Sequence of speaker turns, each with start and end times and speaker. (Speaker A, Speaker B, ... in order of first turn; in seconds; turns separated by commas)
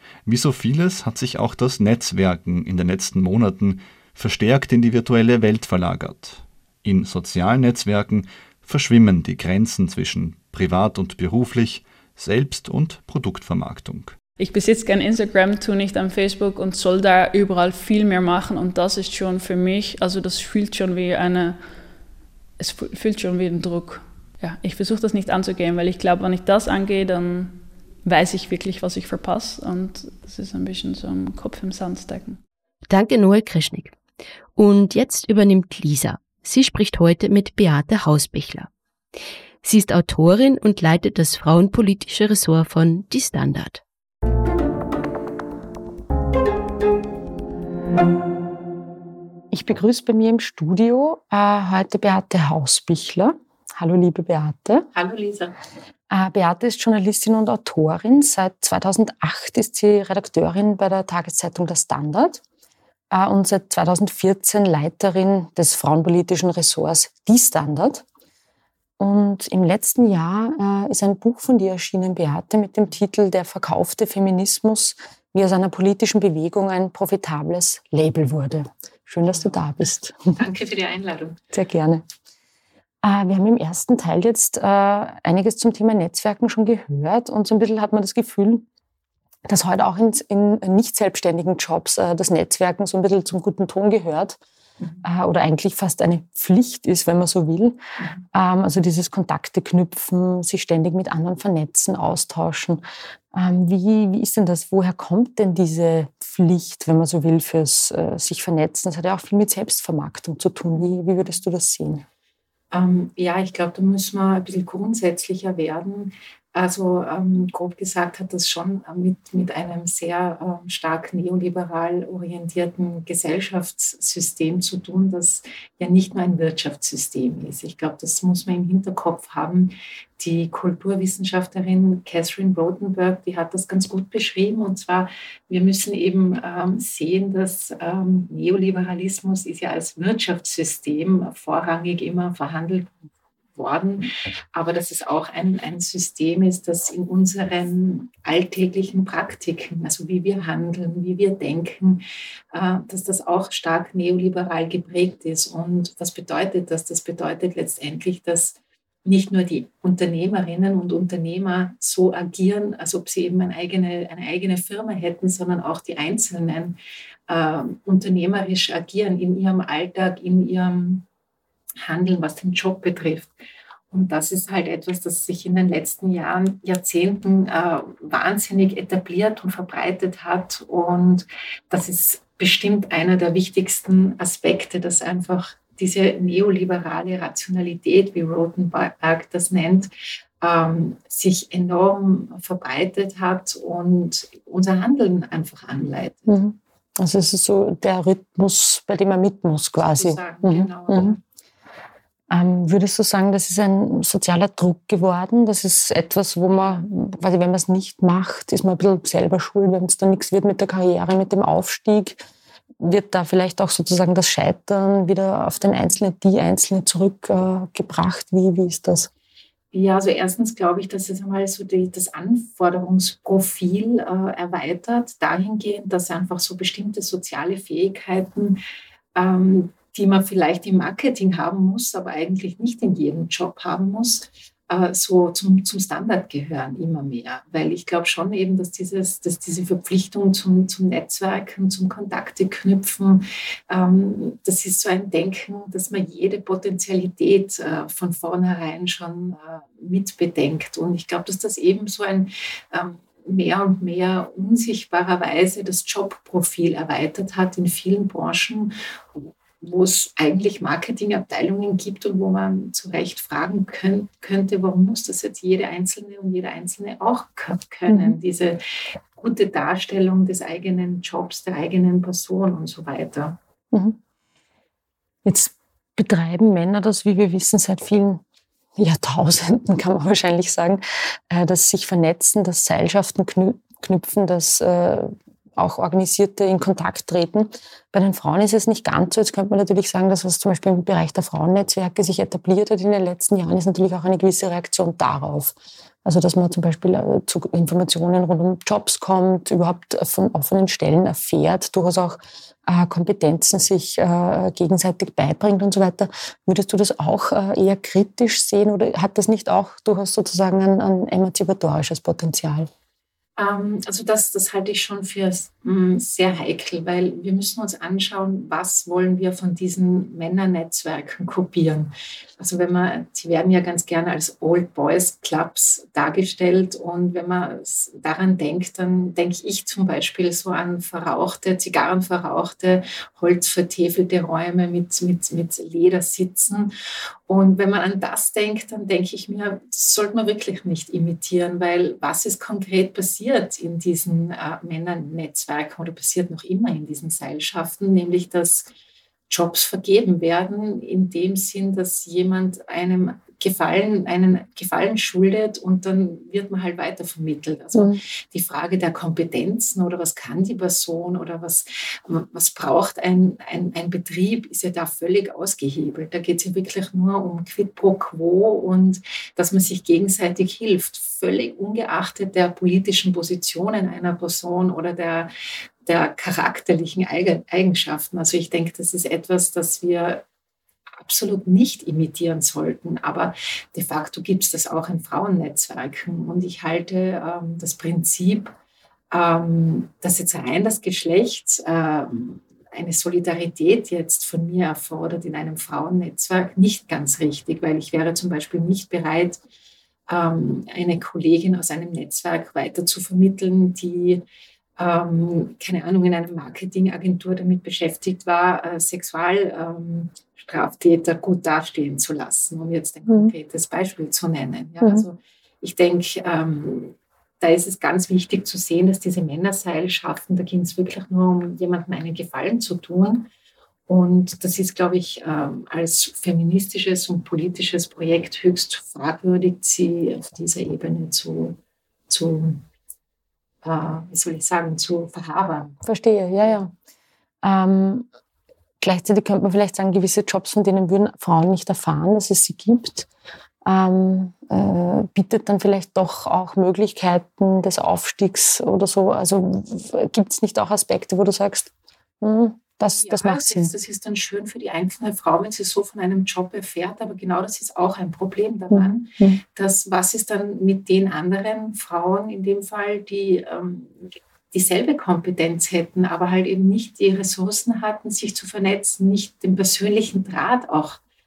Speaker A: 0.3-14.2, Speaker B: 14.4-21.6, Speaker B: 22.6-32.4, Speaker C: 32.9-34.0, Speaker C: 34.6-38.7, Speaker C: 39.6-43.8, Speaker D: 49.5-54.9, Speaker E: 54.9-55.5, Speaker D: 56.1-62.4, Speaker D: 63.1-68.0, Speaker D: 69.0-80.4, Speaker E: 79.3-79.7, Speaker E: 80.4-81.4, Speaker D: 81.5-82.0, Speaker D: 83.0-88.7, Speaker D: 89.5-94.4, Speaker D: 95.0-97.8, Speaker D: 98.3-102.8, Speaker D: 103.3-112.0, Speaker E: 112.7-142.9, Speaker E: 143.6-166.8, Speaker E: 167.3-171.1, Speaker E: 171.8-173.3, Speaker E: 173.9-196.4, Speaker D: 196.3-201.2, Speaker E: 199.8-201.2, Speaker D: 202.3-212.2, Speaker E: 206.5-206.8, Speaker D: 212.8-219.1, Speaker E: 215.6-216.0, Speaker E: 219.7-228.6, Speaker E: 229.2-268.6, Speaker D: 267.9-268.2, Speaker E: 269.1-273.4, Speaker D: 273.7-274.0, Speaker D: 275.2-278.2, Speaker D: 278.8-312.7, Speaker E: 313.4-336.7, Speaker E: 337.3-348.7, Speaker E: 349.3-375.3, Speaker D: 357.8-358.0, Speaker E: 375.9-380.2, Speaker E: 381.0-388.6, Speaker E: 389.1-399.4, Speaker E: 400.1-404.2, Speaker E: 404.8-423.3, Speaker D: 413.1-413.3, Speaker E: 423.9-432.6, Speaker E: 433.6-435.8, Speaker D: 435.8-436.7, Speaker D: 437.4-438.1, Speaker D: 438.8-443.1, Speaker D: 443.6-453.7, Speaker E: 453.0-464.0, Speaker D: 458.7-459.4, Speaker E: 464.5-471.0